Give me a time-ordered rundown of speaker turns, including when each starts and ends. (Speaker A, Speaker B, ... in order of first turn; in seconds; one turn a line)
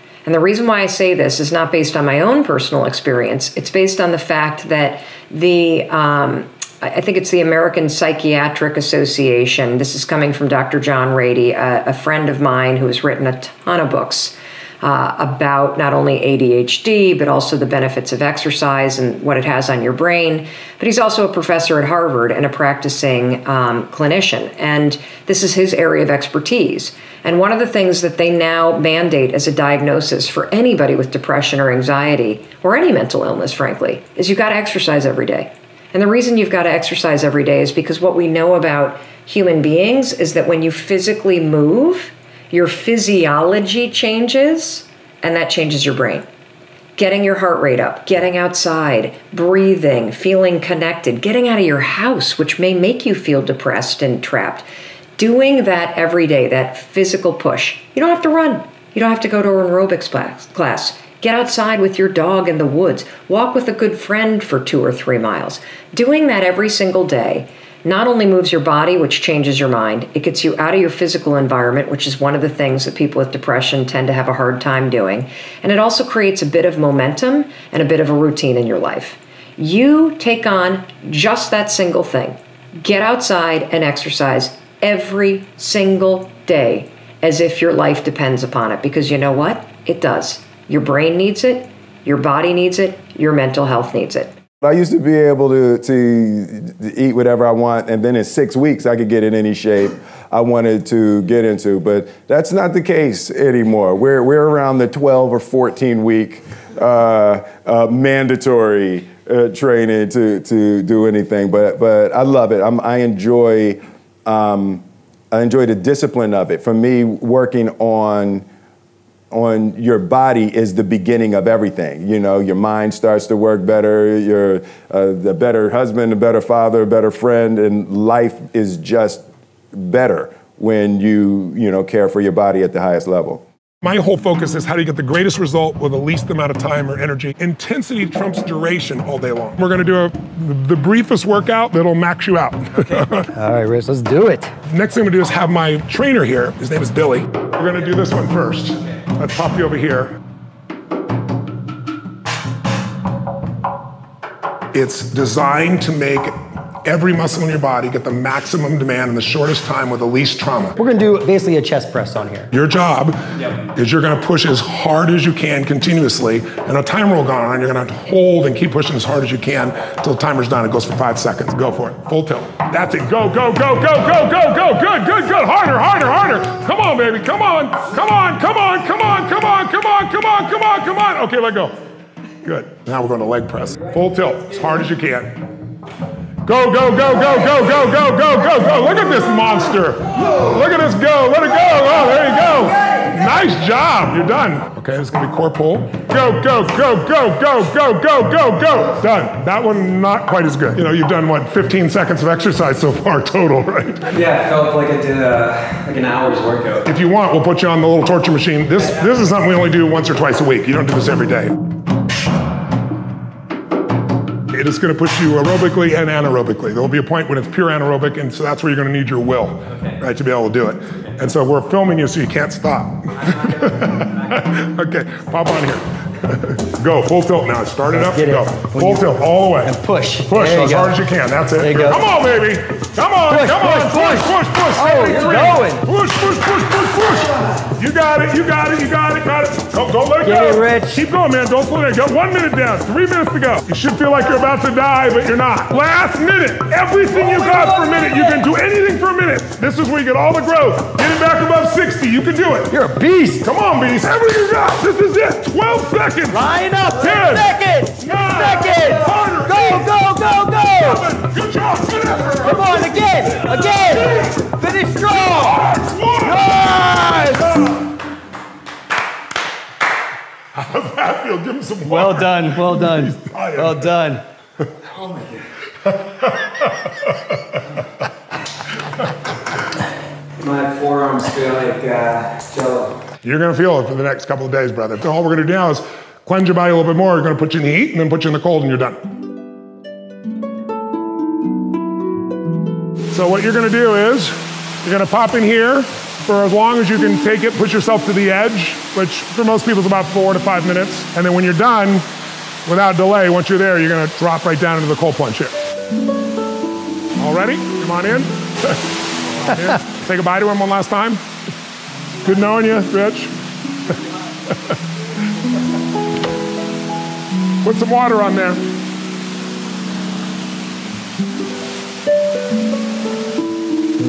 Speaker A: 0.2-46.3
Speaker A: 47.0-54.7
Speaker A: 55.2-94.4
Speaker B: 94.6-118.5
Speaker B: 119.3-133.4
Speaker C: 133.8-143.3
Speaker D: 143.4-144.5
Speaker C: 144.7-150.2
Speaker C: 154.7-160.8
Speaker D: 160.8-162.5
Speaker C: 162.5-163.2
Speaker C: 163.7-181.8
Speaker C: 182.4-185.4
Speaker C: 186.4-204.1
Speaker E: 204.1-206.9
Speaker C: 206.8-211.6
Speaker C: 214.5-252.8
Speaker E: 219.7-220.0
Speaker E: 223.2-224.3
Speaker D: 227.9-229.0
Speaker D: 229.7-231.0
Speaker D: 231.6-232.0
Speaker D: 233.3-234.2
Speaker D: 234.8-235.8
Speaker D: 240.2-240.9
Speaker D: 247.5-248.2
Speaker D: 252.7-253.4
Speaker C: 253.4-260.1
Speaker D: 256.3-261.1
Speaker C: 260.6-264.4
Speaker D: 262.4-265.3
Speaker C: 264.9-266.5
Speaker D: 266.2-267.4
Speaker C: 270.6-273.9
Speaker E: 271.9-272.9
Speaker D: 272.6-273.2
Speaker E: 273.6-274.2
Speaker E: 274.9-275.4
Speaker E: 280.4-283.0
Speaker C: 283.2-289.0
Speaker C: 293.1-302.1
Speaker C: 302.7-305.6
Speaker C: 307.2-308.8
Speaker C: 309.4-311.2
Speaker C: 312.2-313.3
Speaker C: 317.6-318.6